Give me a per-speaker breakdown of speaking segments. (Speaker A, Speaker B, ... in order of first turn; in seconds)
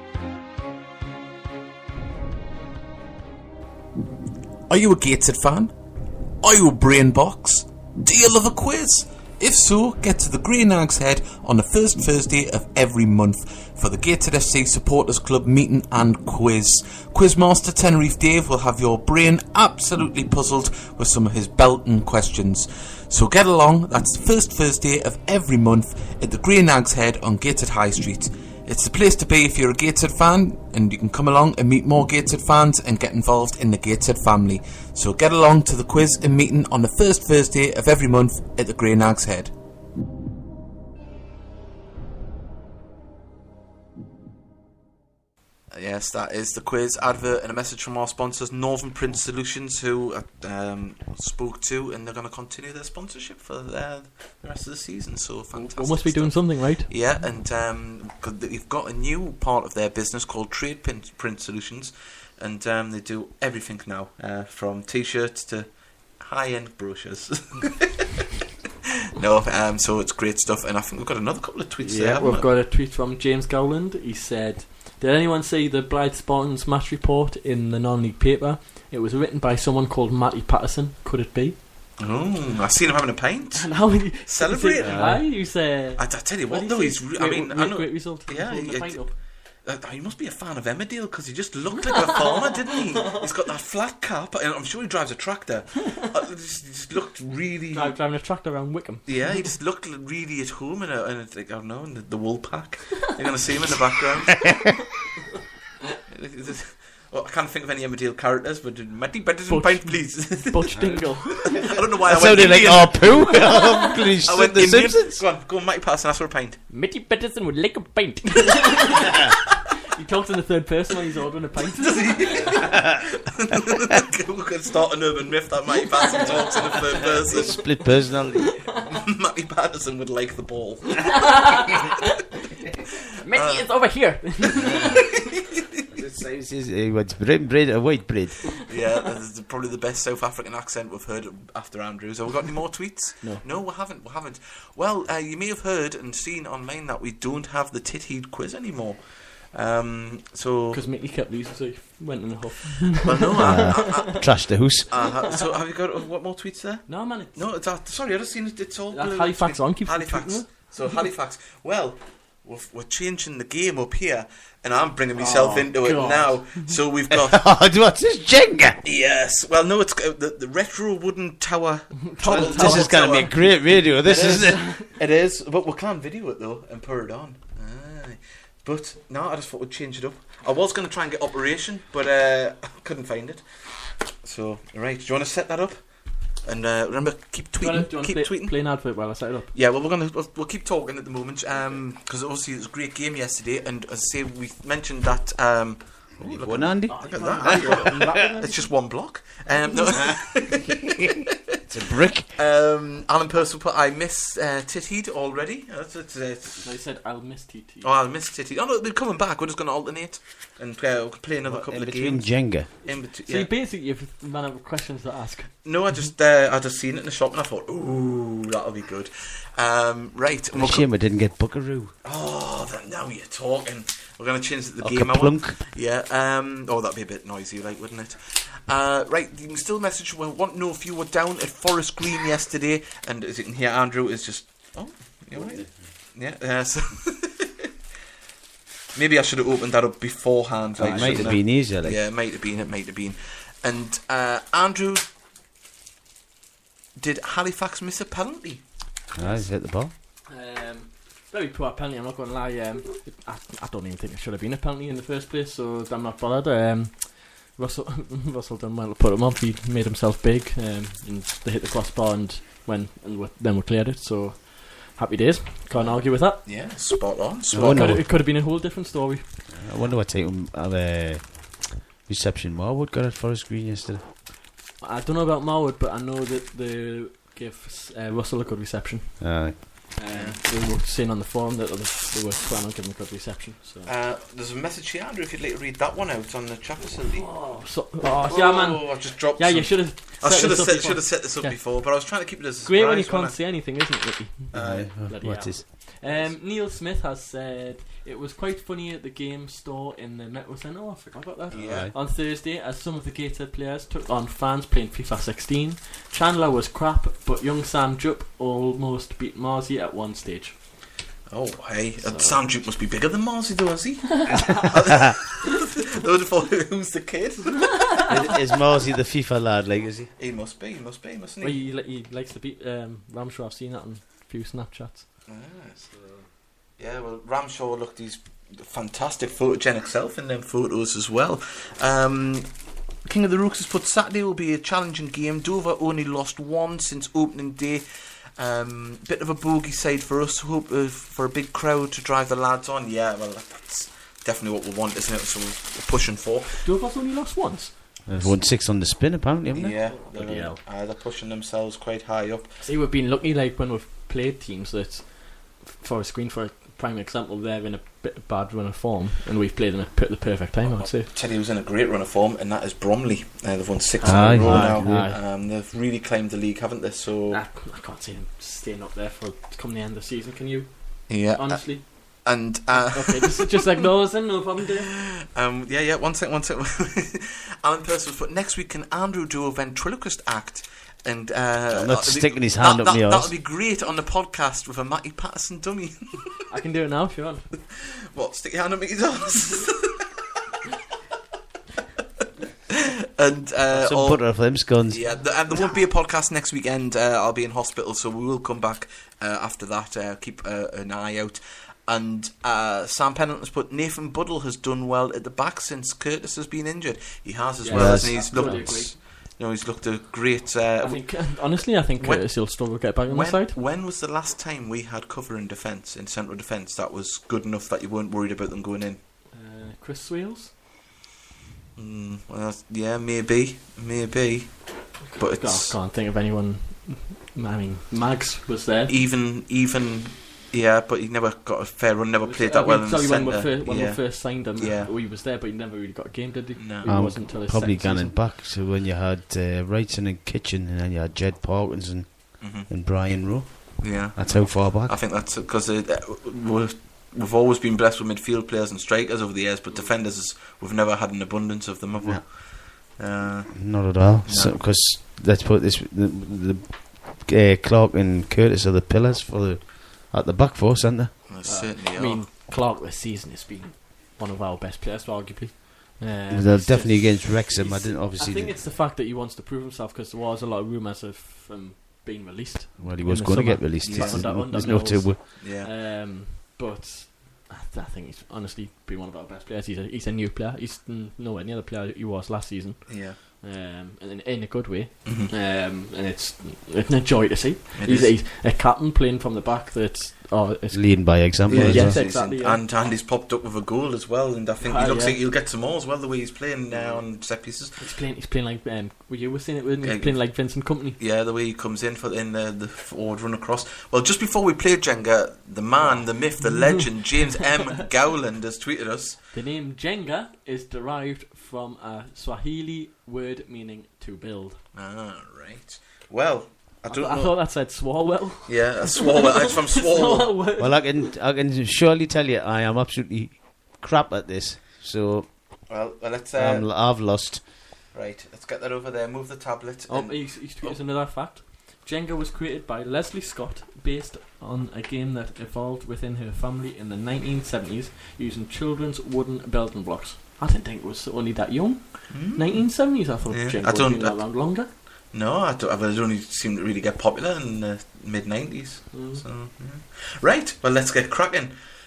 Speaker A: 4.7-5.7, 6.4-39.5, 45.7-68.0, 69.2-72.5, 82.0-85.3, 86.0-89.1, 89.7-98.0, 99.1-104.5, 106.1-116.6, 121.8-127.8, 128.9-131.4, 133.3-133.7, 138.7-150.8, 153.0-167.4, 168.8-183.4, 184.2-185.8, 186.4-188.6, 189.5-201.3, 202.3-206.7, 207.8-213.5, 215.7-220.9, 222.0-237.7, 238.9-245.0, 247.0-248.6, 265.7-268.0, 280.1-280.4, 283.9-287.4, 288.2-293.4, 294.5-295.3, 296.1-296.4, 301.5-301.9, 311.3-318.1, 320.2-321.6, 325.3-325.8, 326.8-332.5, 333.0-337.9, 338.4-346.7, 349.5-352.6, 360.6-367.4, 371.1-373.6, 375.0-386.4, 387.7-390.1, 392.7-419.0, 421.8-425.8, 428.9-434.9, 436.6-437.1, 442.4-442.7, 443.3-454.6, 461.3-462.2, 473.8-474.7, 475.4-475.7, 482.9-483.2, 485.1-485.3, 487.8-488.1, 491.5-497.8, 499.8-500.5, 501.0-509.2, 514.7-517.4, 518.5-520.3, 525.7-526.7, 527.9-530.8, 542.1-544.4, 545.1-551.5
Speaker B: 55.5-56.9, 71.8-81.6, 83.6-89.1, 91.8-92.6, 97.7-99.1, 109.5-111.5, 116.7-119.2, 119.9-122.5, 126.2-127.0, 131.1-132.2, 133.2-135.1, 150.7-154.1, 156.9-157.4, 158.9-160.5, 165.2-166.5, 172.0-173.3, 174.1-174.9, 187.6-189.5, 196.9-198.7, 206.6-207.9, 213.3-215.5, 240.8-241.3, 250.3-266.6, 267.6-269.2, 274.8-283.9, 287.1-292.0, 292.6-310.6, 312.0-312.4, 314.2-314.7, 321.4-325.1, 346.6-347.8, 349.9-350.6, 352.6-361.1, 364.0-365.2, 367.3-374.9, 386.5-387.4, 407.6-408.9, 410.8-413.6, 419.3-420.5, 425.0-428.9, 432.2-438.2, 461.4-492.6, 494.6-495.2, 497.8-501.0, 505.8-506.8, 509.3-514.6, 516.9-521.0, 529.9-544.7, 548.9-549.2
Speaker C: 84.8-85.2, 112.1-115.1, 126.3-128.6, 135.9-138.5, 153.4-154.9, 167.1-168.8, 172.3-174.6, 196.2-198.1, 201.7-202.3, 211.5-212.7, 220.5-221.9, 224.8-225.6, 235.4-235.7, 240.8-242.0, 249.1-249.9, 267.5-268.1, 269.5-274.0, 279.2-279.6, 294.5-295.6, 301.5-301.9, 318.1-320.1, 348.1-349.8, 364.0-365.1, 381.7-383.3, 393.7-395.2, 407.7-408.7, 436.9-445.0, 453.5-461.2, 466.3-468.6, 472.8-475.2, 490.7-492.0, 520.6-525.8, 526.4-527.4